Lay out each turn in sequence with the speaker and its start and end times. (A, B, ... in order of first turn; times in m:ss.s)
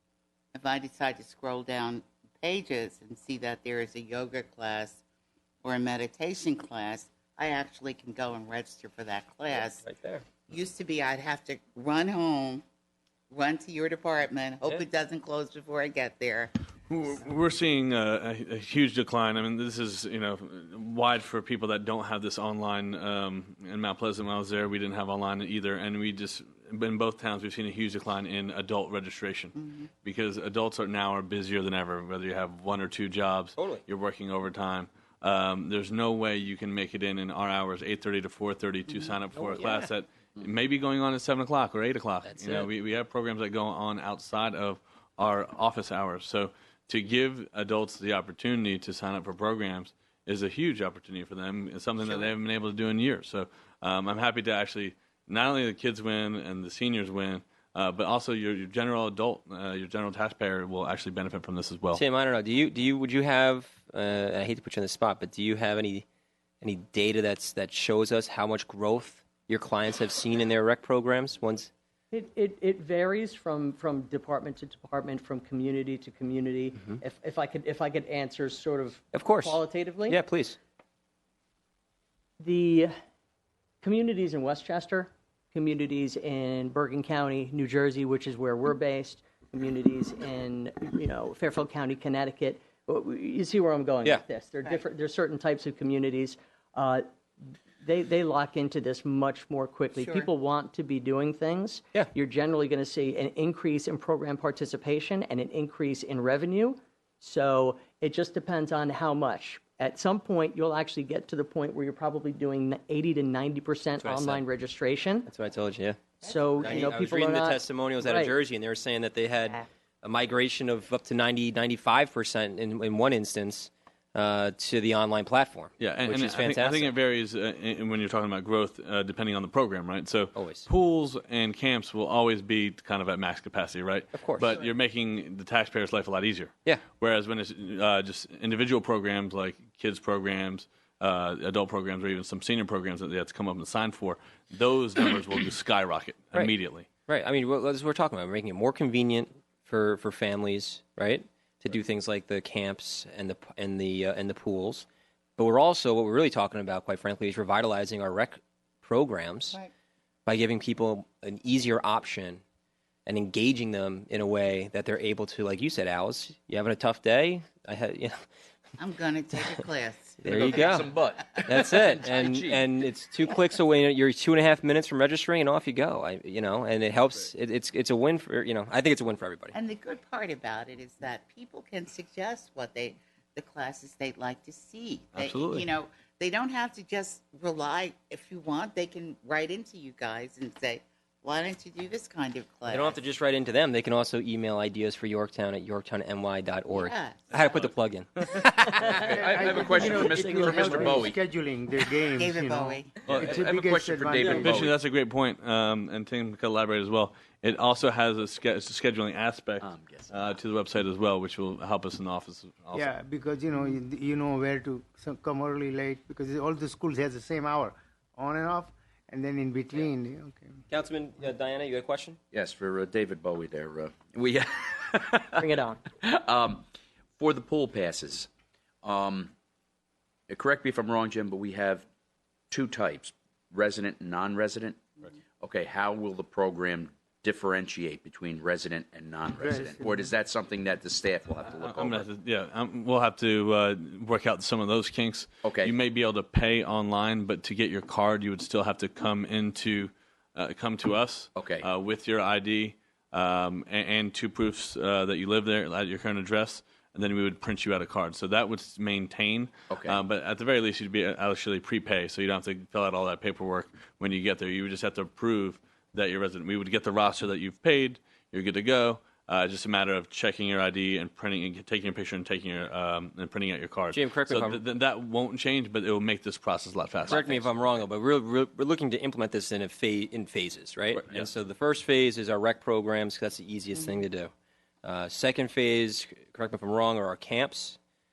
0:00.5-0:05.0 A
0:05.6-0:09.8 A
0:09.8-0:10.2 B
0:10.5-0:12.6 A
0:13.3-0:16.5 A
0:16.9-1:02.0 C
0:29.6-0:29.9 A
0:33.6-0:33.8 B
0:39.4-0:39.8 B
0:42.2-0:42.7 B
1:01.9-1:06.0 B
1:06.6-1:11.7 B
1:12.1-1:20.2 D
1:19.1-1:20.6 B
1:22.4-1:22.9 D
1:23.8-1:37.0 D
1:37.8-1:55.3 D
1:39.9-1:40.3 A
1:54.0-1:54.4 B
1:55.2-1:56.0 B
1:56.2-1:58.4 D
1:56.2-1:57.0 A
1:56.6-2:06.9 B
2:05.8-2:26.9 C
2:10.3-2:10.7 B
2:14.1-2:14.6 B
2:27.1-2:34.8 B
2:35.4-2:39.6 B
2:40.2-2:42.4 B
2:43.0-2:48.2 B
2:48.8-2:50.3 A
2:50.2-2:50.9 B
2:50.2-2:52.7 E
2:51.4-2:59.6 B
2:59.5-3:13.0 A
3:05.1-3:05.5 C
3:05.2-3:05.6 B
3:12.7-3:19.0 B
3:16.7-3:17.3 A
3:18.7-3:21.1 D
3:18.8-3:21.2 E
3:19.1-3:24.6 F
3:22.1-3:23.2 A
3:23.0-3:24.8 E
3:24.2-3:32.9 C
3:29.6-3:30.3 E
3:32.7-3:40.5 F
3:40.7-3:42.2 B
3:42.3-3:45.4 E
3:45.3-3:45.8 D
3:46.0-3:46.6 E
3:47.2-3:48.3 E
3:48.8-3:49.3 E
3:50.3-3:51.8 E
3:52.5-4:02.0 E
3:59.4-4:00.1 F
4:01.4-4:37.5 C
4:05.4-4:05.7 E
4:11.3-4:11.7 E
4:19.7-4:20.0 E
4:33.9-4:34.6 B
4:37.1-4:44.3 B
4:40.9-4:41.2 C
4:44.8-4:47.8 B